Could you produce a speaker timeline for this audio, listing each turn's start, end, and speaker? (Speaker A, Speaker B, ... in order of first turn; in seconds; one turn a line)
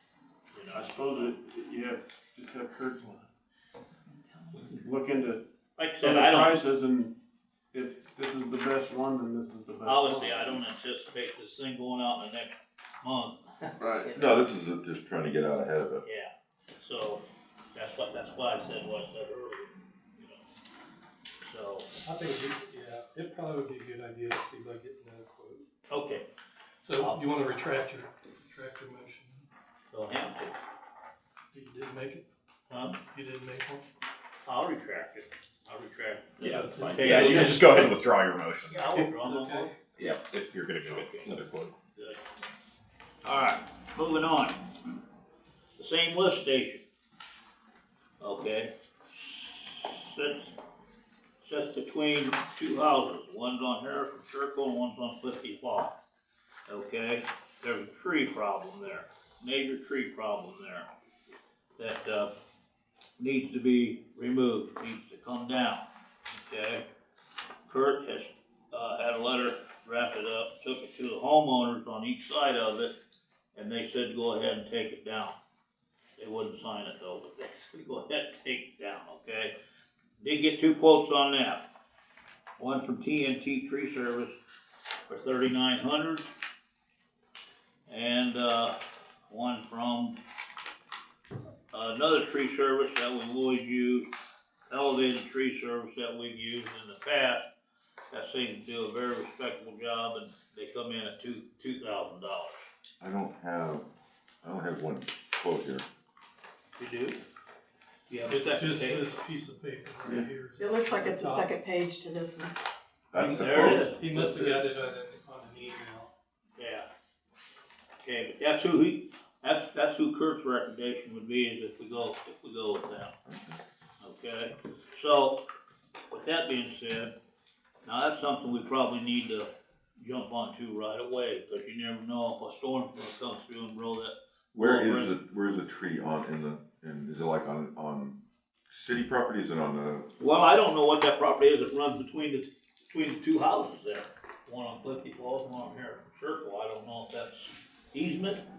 Speaker A: 0.5-1.3
Speaker B: 0.7-3.3
Speaker B: 4.6-5.5
Speaker A: 5.8-6.6
Speaker B: 6.0-7.2
Speaker B: 7.7-10.6
Speaker A: 9.8-14.4
Speaker B: 13.8-14.1
Speaker C: 14.2-16.0
Speaker A: 16.0-20.4
Speaker A: 21.4-21.9
Speaker D: 22.0-25.7
Speaker A: 25.9-26.3
Speaker D: 26.8-29.5
Speaker A: 29.9-30.5
Speaker D: 31.5-32.2
Speaker A: 32.7-33.0
Speaker D: 33.0-33.8
Speaker A: 34.5-37.9
Speaker E: 36.4-38.9
Speaker D: 36.4-37.9
Speaker A: 38.7-39.7
Speaker D: 38.9-39.8
Speaker E: 40.0-41.7
Speaker A: 40.9-41.4
Speaker A: 43.2-44.6
Speaker A: 45.8-46.8
Speaker A: 48.2-50.5
Speaker A: 51.4-55.9
Speaker A: 56.7-60.9
Speaker A: 61.8-62.3
Speaker A: 63.2-66.9
Speaker A: 67.7-72.9
Speaker A: 73.5-75.3
Speaker A: 76.2-79.5
Speaker A: 80.2-81.6
Speaker A: 82.6-84.4
Speaker A: 85.1-86.3
Speaker A: 87.9-88.8
Speaker A: 89.3-90.2
Speaker A: 91.7-94.1
Speaker A: 94.7-97.5
Speaker A: 98.1-102.6
Speaker C: 103.0-103.9
Speaker C: 104.4-105.8
Speaker A: 106.8-107.2
Speaker A: 108.1-109.1
Speaker D: 108.3-111.5
Speaker F: 110.6-112.5
Speaker C: 113.1-113.9
Speaker D: 113.1-116.1
Speaker A: 113.2-114.6
Speaker A: 116.6-116.9
Speaker A: 118.0-123.1
Speaker C: 123.3-123.6
Speaker A: 124.0-125.4
Speaker A: 126.1-127.1
Speaker A: 127.8-135.1
Speaker C: 134.5-138.2
Speaker C: 138.7-140.1
Speaker A: 140.2-148.4